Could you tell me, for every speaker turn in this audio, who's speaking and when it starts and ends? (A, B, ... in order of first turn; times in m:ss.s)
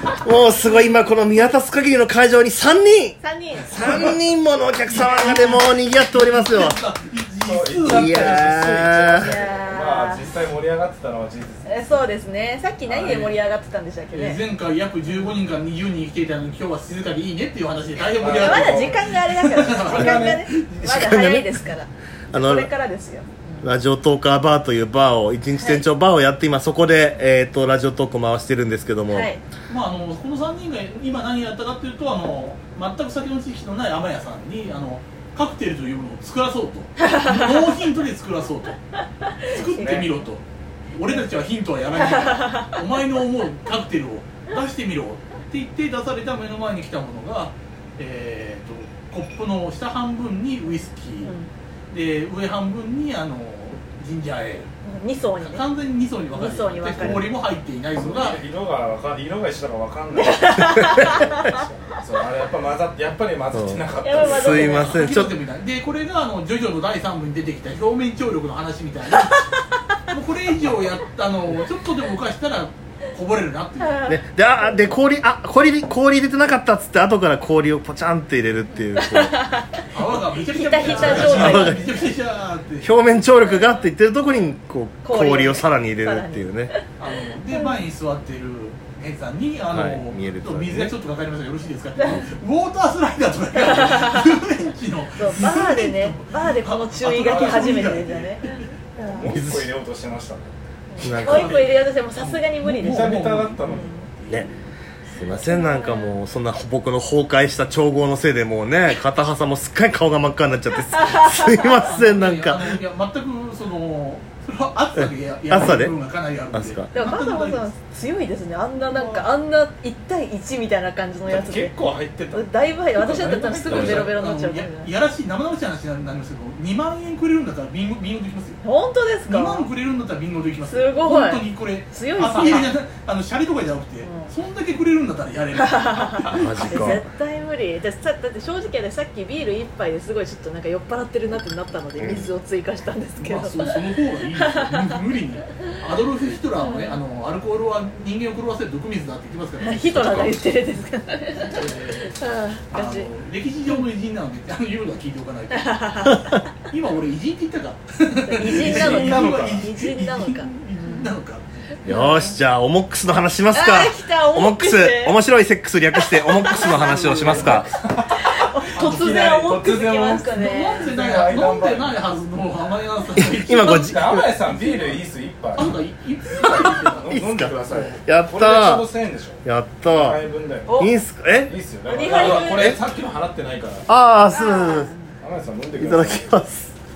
0:00.2-0:03.2 A
0:03.2-0:04.1 B
0:03.7-0:06.8 A
0:04.9-0:08.6 C
0:07.4-0:12.0 D
0:07.9-0:09.3 A
0:09.1-0:10.2 B
0:11.6-0:14.4 B
0:12.8-0:13.3 D
0:13.0-0:13.4 C
0:14.1-0:21.0 C
0:18.2-0:19.0 D
0:18.2-0:23.6 B
0:19.9-0:20.4 D
0:20.8-0:21.6 A
0:22.3-0:22.7 A
0:23.6-0:29.3 A
0:25.5-0:25.8 B
0:29.1-0:29.4 B
0:29.7-0:38.8 C
0:39.4-0:51.3 C
0:39.5-0:40.2 B
0:42.2-0:42.6 B
0:51.2-0:51.5 B
0:51.9-0:54.7 C
0:54.8-0:55.7 B
0:55.4-0:58.4 C
0:56.3-0:57.3 B
0:57.0-0:57.2 A
0:57.9-1:04.9 D
1:00.1-1:01.6 B
1:00.7-1:01.2 A
1:03.5-1:05.3 A
1:04.0-1:05.0 B
1:04.6-1:09.3 C
1:09.3-1:09.6 B
1:10.1-1:14.0 C
1:13.8-1:14.8 B
1:14.1-1:19.4 A
1:18.7-1:19.9 B
1:19.9-1:22.9 C
1:20.4-1:22.0 B
1:20.8-1:21.9 A
1:22.8-1:26.7 A
1:23.4-1:23.8 B
1:25.0-1:26.8 B
1:27.0-1:38.6 C
1:29.7-1:30.9 A
1:33.7-1:34.1 B
1:35.2-1:39.3 B
1:37.1-1:38.3 D
1:39.0-1:40.7 D
1:39.3-1:39.7 A
1:40.9-1:43.1 B
1:41.0-1:43.8 C
1:41.0-1:41.6 A
1:42.8-1:44.5 D
1:43.6-1:44.1 B
1:45.1-1:52.8 A
1:45.2-1:46.1 B
1:51.1-1:51.7 B
1:51.8-1:57.7 C
1:55.0-1:56.0 A
1:56.5-1:56.9 A
1:56.9-2:01.7 B
1:58.8-1:59.2 C
2:01.2-2:02.5 D
2:02.3-2:04.9 B
2:03.0-2:08.6 C
2:03.0-2:04.1 D
2:03.7-2:04.0 A
2:08.6-2:09.7 B
2:09.2-2:16.9 C
2:10.7-2:12.7 B
2:14.0-2:14.3 B
2:15.6-2:16.0 B
2:16.3-2:17.0 A
2:16.7-2:23.8 B
2:22.0-2:22.3 A
2:23.2-2:29.9 C
2:26.6-2:27.0 B
2:29.6-2:33.1 B
2:29.8-2:30.4 A
2:31.4-2:32.2 C
2:32.7-2:35.8 C
2:35.5-2:36.3 B
2:36.7-2:41.5 C
2:38.2-2:41.1 B
2:38.4-2:39.7 D
2:41.8-2:42.4 B
2:41.8-2:47.7 A
2:43.5-2:45.2 B
2:46.2-2:47.0 B
2:46.5-2:52.0 D
2:47.2-2:47.6 C
2:48.1-2:50.9 B
2:48.7-2:49.1 C
2:50.3-2:54.0 C
2:53.2-2:54.3 A
2:53.5-2:55.8 D
2:54.6-2:55.0 C
2:55.5-2:57.1 C
2:56.3-3:00.8 D
2:57.1-2:58.9 A
2:57.7-2:58.0 C
2:59.4-3:00.2 A
3:00.7-3:01.0 B
3:00.8-3:01.6 A
3:01.4-3:03.9 D
3:01.8-3:02.8 B
3:02.1-3:02.8 A
3:03.9-3:04.9 A
3:04.3-3:05.1 B
3:05.2-3:06.3 D
3:05.8-3:06.7 A